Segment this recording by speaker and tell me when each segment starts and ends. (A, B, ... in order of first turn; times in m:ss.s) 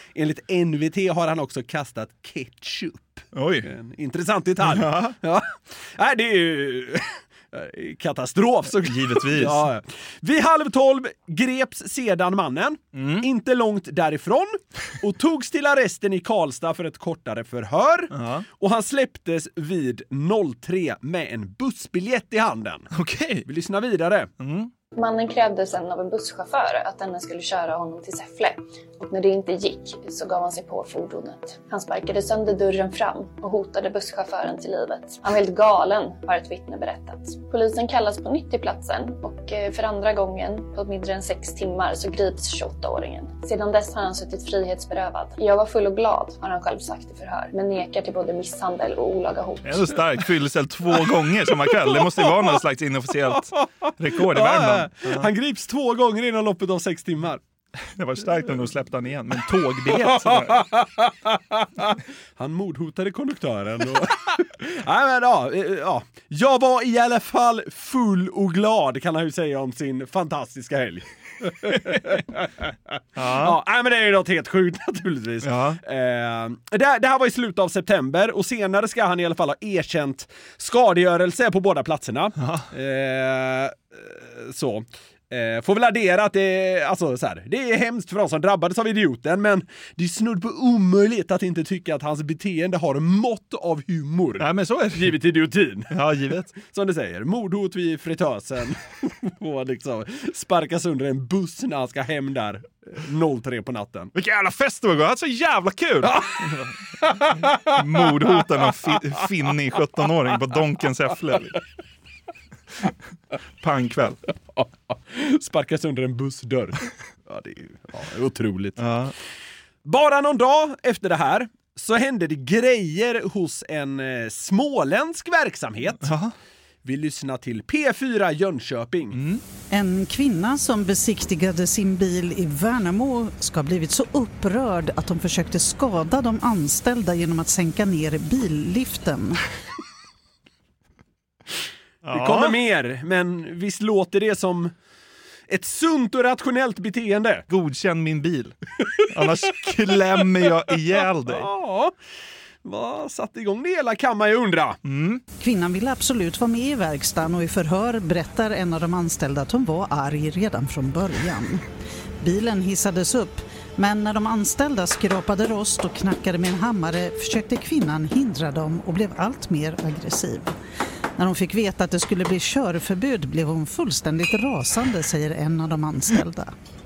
0:00.1-0:22.9 A
0:03.3-0:03.7 B
0:04.6-0:05.2 B
0:08.8-0:09.7 B
0:13.0-0:13.3 B
0:18.1-0:18.4 B
0:22.9-0:23.4 B
0:23.4-0:24.3 A
0:24.4-0:24.7 B
0:24.9-0:49.9 C
0:49.6-0:55.3 B
0:52.0-0:52.3 A
0:54.2-0:57.4 A
0:58.0-1:00.7 B
1:00.0-1:12.5 A
1:13.2-1:13.6 B
1:13.2-1:35.9 A
1:15.4-1:15.8 B
1:22.4-1:22.6 B
1:34.4-1:35.2 B
1:35.9-1:36.6 B
1:36.6-1:44.1 A
1:44.1-1:46.7 B
1:46.0-1:46.3 A
1:47.4-1:51.6 B
1:53.6-1:54.2 B
1:55.1-1:58.8 A
1:58.8-1:59.1 B
1:59.8-2:06.1 A
2:06.0-2:06.3 B
2:06.8-2:09.2 A
2:09.1-2:09.4 B
2:09.7-2:19.4 D
2:22.0-2:22.6 B
2:22.1-2:24.7 A
2:25.5-2:27.4 A
2:27.5-2:28.5 B
2:29.1-2:31.5 B
2:31.0-2:31.9 A
2:32.6-2:34.8 A
2:34.8-2:35.2 B
2:35.4-2:41.6 D
2:42.2-2:50.6 D
2:51.2-2:56.5 D